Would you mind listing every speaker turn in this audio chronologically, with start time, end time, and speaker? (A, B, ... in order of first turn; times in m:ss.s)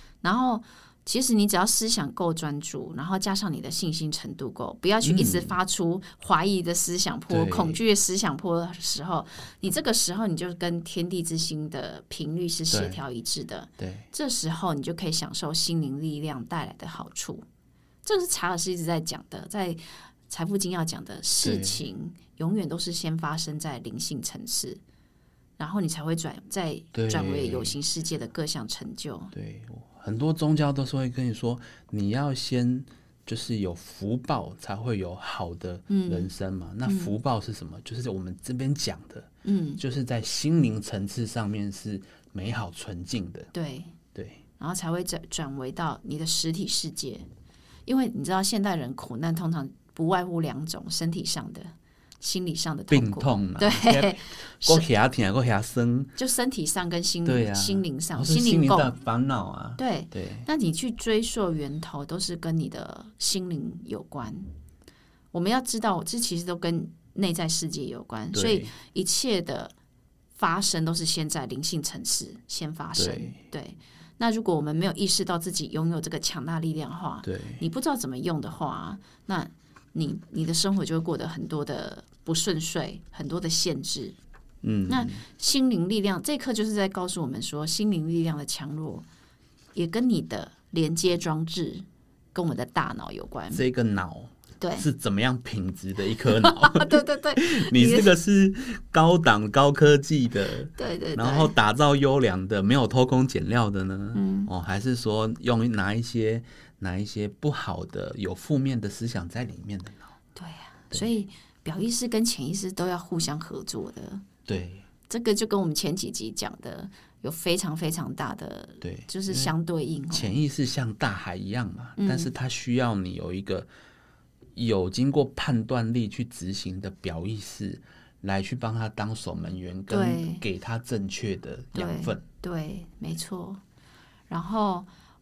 0:00.2-0:17.4 A
0:05.0-0:05.6 B
0:07.3-0:07.8 B
0:12.7-0:13.0 B
0:13.8-0:14.1 B
0:18.0-0:24.8 A
0:21.4-0:21.8 B
0:25.6-0:29.3 A
0:26.9-0:27.8 B
0:29.3-0:43.5 B
0:35.9-0:36.3 A
0:36.8-0:37.1 A
0:39.4-0:39.8 A
0:43.5-0:44.0 A
0:44.1-0:44.4 B
0:44.6-0:47.2 A
0:47.9-0:54.8 A
0:52.9-0:56.1 B
0:56.2-0:58.9 A
0:57.2-1:00.5 B
0:59.8-1:04.5 A
1:05.3-1:09.7 A
1:08.3-1:08.7 B
1:10.4-1:24.2 A
1:13.0-1:13.4 B
1:17.2-1:17.6 B
1:24.6-1:25.2 B
1:24.9-1:29.1 A
1:29.8-1:33.6 A
1:33.5-1:50.0 B
1:34.6-1:34.9 A
1:36.3-1:38.1 A
1:40.8-1:41.5 A
1:44.2-1:44.5 A
1:50.4-1:54.2 A
1:54.5-1:54.8 B
1:55.1-2:00.4 A
1:58.8-1:59.5 B
2:00.1-2:03.7 B
2:02.0-2:02.3 A
2:04.6-2:12.2 B
2:09.9-2:10.4 A
2:11.8-2:13.6 A
2:14.3-2:14.9 A